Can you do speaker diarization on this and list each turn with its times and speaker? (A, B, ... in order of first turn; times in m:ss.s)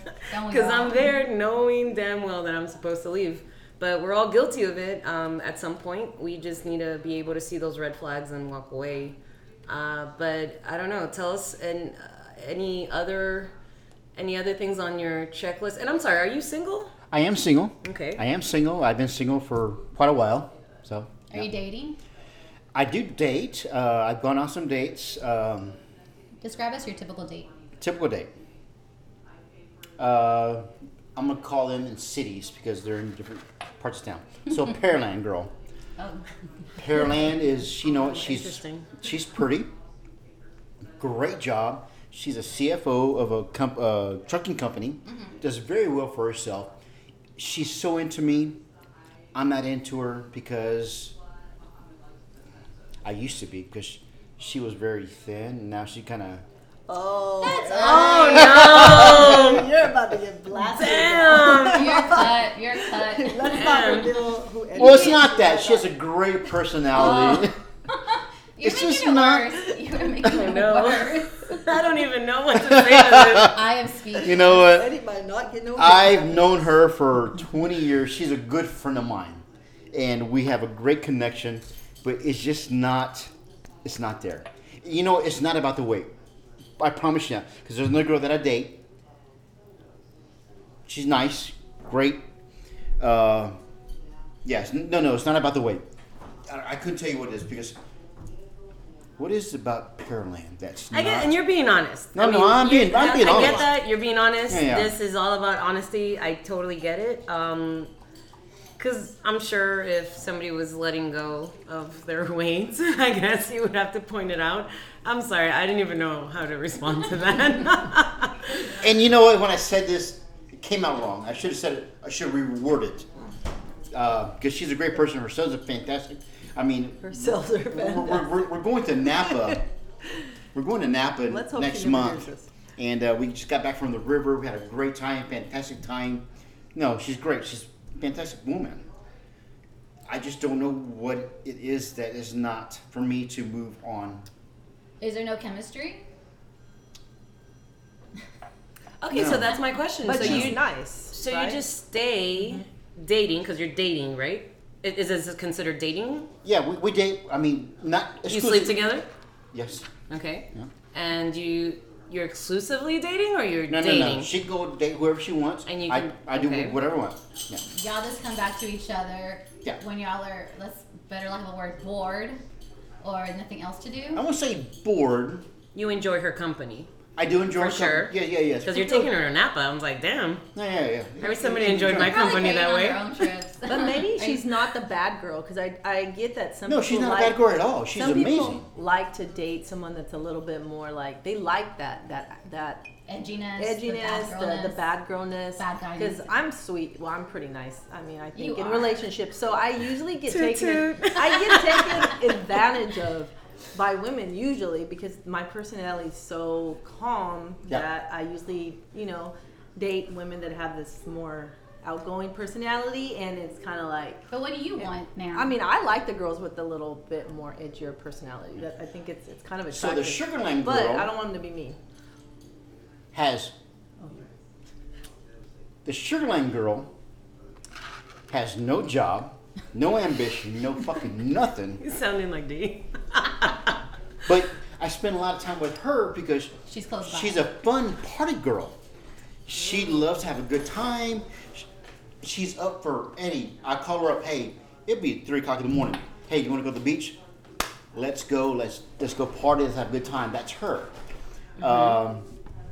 0:00.3-0:13.5 A
0:00.3-0:01.1 B
0:14.2-0:16.9 A
0:17.1-0:21.5 C
0:17.8-0:18.2 A
0:21.3-0:22.0 B
0:22.7-0:25.8 C
0:26.4-0:27.5 B
0:27.8-0:28.3 C
0:30.0-0:35.5 C
0:36.0-0:36.2 B
0:36.8-0:39.7 C
0:37.8-0:39.0 A
0:41.0-0:46.7 C
0:45.1-0:45.4 B
0:47.4-0:48.6 C
0:49.3-0:51.2 C
0:53.0-0:56.4 C
0:56.9-1:05.9 D
0:57.4-0:58.5 B
0:57.6-0:59.7 A
0:58.0-0:59.5 C
1:00.8-1:02.2 A
1:01.6-1:03.7 B
1:03.5-1:04.3 A
1:04.7-1:07.6 C
1:07.0-1:11.6 B
1:08.6-1:09.7 C
1:10.2-1:13.6 A
1:12.5-1:13.6 C
1:13.5-1:14.6 B
1:14.2-1:14.9 C
1:14.3-1:16.7 D
1:15.8-1:23.3 C
1:23.8-1:26.1 C
1:26.8-1:28.8 C
1:30.9-1:32.2 C
1:33.0-1:33.6 C
1:34.4-1:35.8 C
1:36.5-1:37.8 C
1:39.2-1:41.4 C
1:40.9-1:47.9 A
1:42.2-1:43.8 C
1:44.5-1:45.0 C
1:48.8-1:58.7 A
1:58.7-2:03.1 C
2:03.9-2:09.7 C
2:07.0-2:08.5 D
2:09.1-2:09.6 D
2:10.5-2:18.9 C
2:11.3-2:12.5 D
2:20.1-2:24.3 C
2:25.0-2:26.0 B
2:29.0-2:36.3 A
2:29.1-2:29.6 C
2:30.0-2:31.6 D
2:30.1-2:30.6 C
2:36.4-2:38.8 C
2:38.3-2:39.1 A
2:39.5-2:39.9 C
2:40.1-2:44.3 A
2:43.7-2:47.6 C
2:45.7-2:46.8 A
2:47.7-2:52.4 B
2:53.0-2:54.2 B
2:54.2-2:55.5 C
2:55.7-2:56.9 A
2:57.2-2:59.1 C
2:57.6-3:00.4 A
3:00.6-3:02.4 C
3:01.2-3:03.2 A
3:01.9-3:04.4 B
3:03.7-3:07.4 D
3:06.7-3:08.7 C
3:07.9-3:12.9 D
3:13.1-3:14.8 B
3:13.6-3:34.3 D
3:15.6-3:16.3 B
3:18.4-3:19.0 B
3:20.3-3:22.3 A
3:34.3-3:35.6 B
3:34.8-3:41.8 D
3:39.7-3:41.1 C
3:43.1-3:43.5 C
3:45.8-3:46.9 C
3:48.3-3:51.8 C
3:51.8-3:53.8 A
3:54.2-3:58.8 C
3:56.7-3:57.4 B
3:59.5-4:01.7 C
4:02.2-4:07.2 C
4:07.9-4:11.0 C
4:11.6-4:12.3 C
4:11.6-4:12.0 A